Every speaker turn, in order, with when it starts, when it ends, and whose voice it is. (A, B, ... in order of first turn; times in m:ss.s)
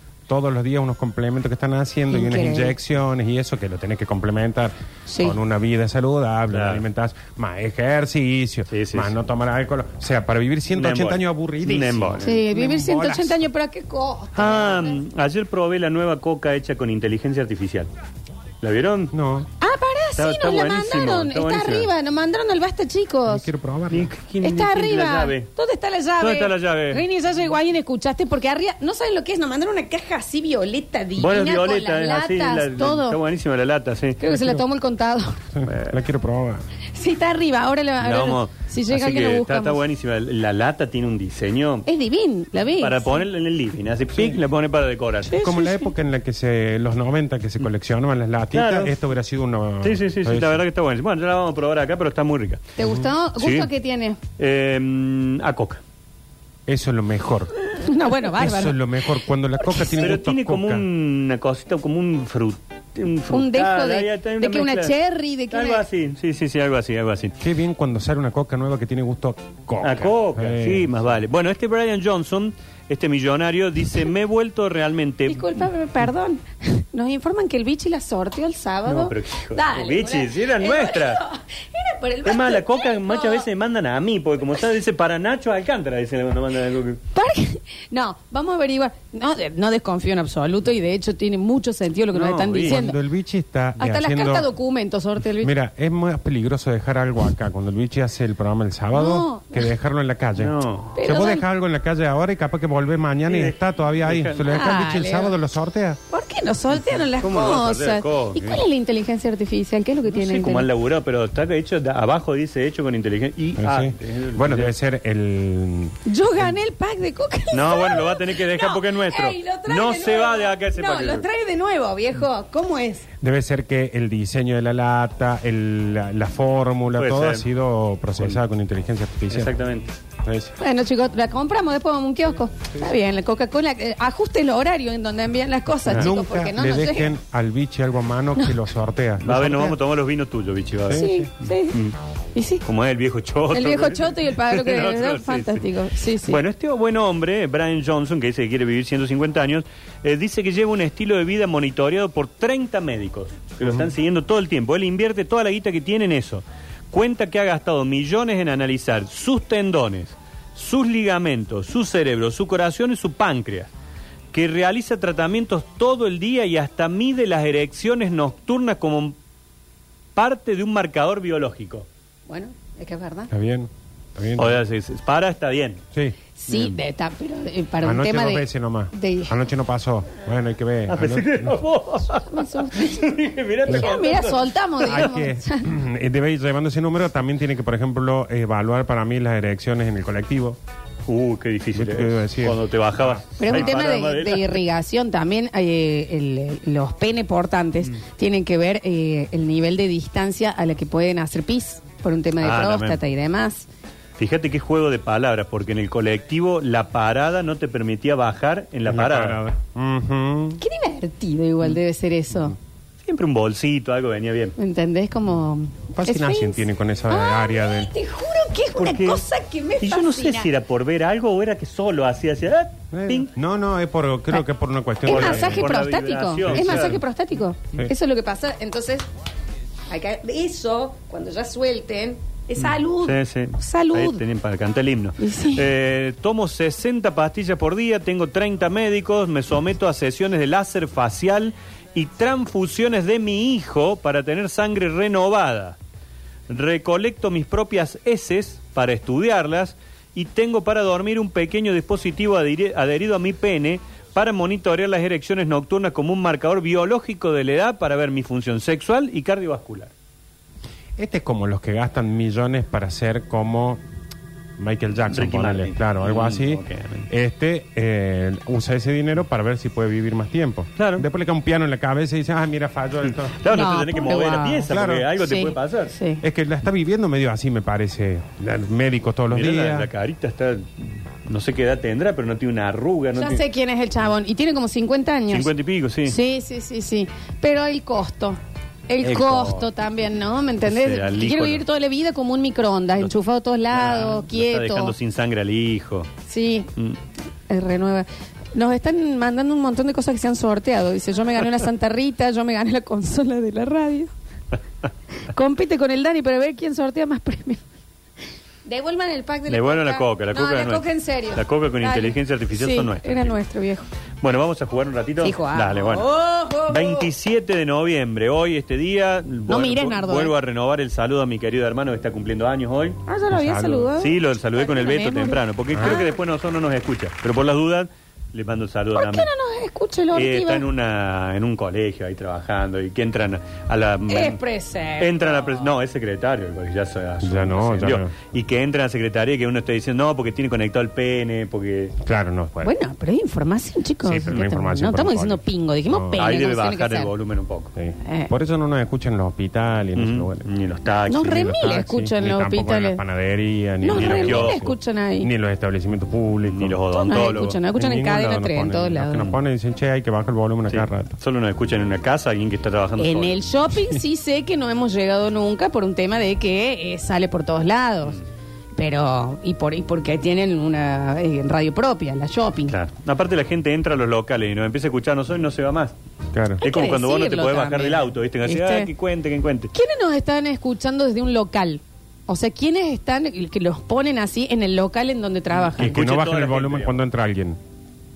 0:00.3-0:13.4 A
0:02.1-0:02.8 B
0:05.1-0:05.4 B
0:06.5-0:06.8 C
0:08.7-0:09.1 C
0:10.7-0:12.3 C
0:12.2-0:15.0 B
0:14.4-0:17.9 C
0:18.6-0:19.1 C
0:19.1-0:19.5 A
0:19.6-0:23.5 B
0:20.2-0:21.9 C
0:23.3-0:24.1 A
0:23.9-0:25.5 C
0:24.4-0:33.2 B
0:26.2-0:27.0 C
0:31.2-0:34.3 C
0:34.2-0:35.4 B
0:35.5-0:36.6 A
0:35.7-0:36.0 C
0:36.9-0:39.8 B
0:38.0-0:41.9 C
0:41.9-0:43.2 B
0:42.8-0:45.4 C
0:45.2-0:45.9 B
0:45.4-0:50.6 A
0:48.5-0:49.0 C
0:49.8-0:52.6 C
0:52.8-0:54.2 B
0:52.8-0:53.1 A
0:53.4-0:53.7 C
0:54.4-0:55.8 C
0:56.7-0:57.5 A
0:57.7-0:58.8 B
0:58.3-1:00.8 A
0:59.6-0:59.9 B
0:59.9-1:04.9 C
1:03.3-1:05.8 B
1:05.5-1:07.4 C
1:07.4-1:10.9 A
1:09.8-1:15.6 C
1:15.3-1:23.5 B
1:18.9-1:21.2 C
1:22.2-1:27.0 C
1:27.1-1:33.0 B
1:32.1-1:32.8 C
1:32.7-1:34.5 A
1:33.8-1:35.5 B
1:35.4-1:46.0 A
1:38.9-1:39.7 B
1:40.4-1:40.9 C
1:41.0-1:41.4 B
1:43.3-1:44.6 C
1:44.5-1:45.4 B
1:46.1-1:50.7 B
1:47.2-1:48.6 C
1:50.1-1:54.7 C
1:53.6-1:56.0 A
1:56.1-2:03.1 B
1:57.5-2:01.3 C
2:03.2-2:09.5 A
2:07.0-2:07.5 C
2:09.3-2:09.9 C
2:10.2-2:10.6 A
2:10.6-2:17.1 B
2:15.9-2:19.8 A
2:19.2-2:22.0 C
2:20.9-2:21.3 A
2:20.9-2:21.8 B
2:22.4-2:22.6 B
2:22.6-2:25.7 C
2:23.5-2:26.4 B
2:26.3-2:43.7 C
2:44.3-2:49.2 C
2:50.2-2:51.9 C
2:52.3-2:53.3 B
2:53.3-2:54.6 A
2:54.4-2:55.8 C
2:56.4-2:59.3 B
2:57.8-3:01.6 A
3:00.9-3:05.1 C
3:02.1-3:03.1 B
3:03.7-3:05.7 B
3:04.8-3:10.6 A
3:11.1-3:14.6 C
3:11.8-3:13.2 A
3:13.4-3:23.7 B
3:22.4-3:23.0 C
3:24.2-3:29.4 C
3:28.9-3:30.6 A
3:30.6-3:32.6 B
3:33.0-3:34.6 C
3:34.6-3:40.5 B
3:35.9-3:37.9 A
3:38.7-3:39.2 C
3:39.8-3:43.3 C
3:42.9-3:45.7 A
3:45.0-3:49.1 B
3:45.1-3:47.0 C
3:46.5-3:47.0 A
3:49.9-3:54.2 B
3:52.6-4:05.8 C
3:55.2-3:55.7 B
4:06.5-4:19.9 C
4:21.0-4:23.8 A
4:24.6-4:33.4 A
4:25.1-4:27.1 C
4:30.8-4:31.1 C
4:33.2-4:36.0 C
4:33.5-4:36.2 B
4:34.7-4:35.1 A
4:36.2-4:39.9 A
4:39.3-4:43.4 C
4:43.2-4:45.5 B
4:45.3-4:46.2 C
4:46.0-4:55.0 B
4:49.0-4:49.7 C
4:50.6-4:51.6 C
4:53.7-4:56.1 C
4:56.3-4:56.7 B
4:57.5-5:04.1 B
5:05.3-5:07.6 B
5:08.7-5:13.8 B
5:09.5-5:13.4 C
5:14.2-5:16.1 C
5:15.2-5:17.1 B
5:16.7-5:23.0 C
5:19.5-5:20.3 B
5:23.1-5:26.2 B
5:23.3-5:23.9 A
5:24.0-5:29.3 C
5:25.8-5:26.0 A
5:29.0-5:30.6 B
5:30.1-5:34.4 C
5:34.1-5:35.7 B
5:35.0-5:42.0 C
5:37.2-5:38.1 A
5:42.0-5:42.7 A
5:42.6-5:47.1 B
5:44.0-5:46.3 A
5:46.2-5:47.7 C
5:47.8-5:50.5 A
5:48.0-5:48.3 B
5:50.0-5:51.5 C
5:51.1-5:53.0 B
5:51.2-6:01.2 A
5:53.8-5:55.3 B
5:53.9-5:54.7 C
5:56.4-5:57.6 C
5:56.9-5:59.3 B
6:00.7-6:03.4 C
6:03.0-6:08.2 B
6:08.8-6:12.8 B
6:12.7-6:16.0 C
6:16.3-6:16.6 A
6:16.6-6:18.9 B
6:16.6-6:19.7 C
6:19.7-6:26.0 B
6:25.6-6:27.0 C
6:25.8-6:27.6 A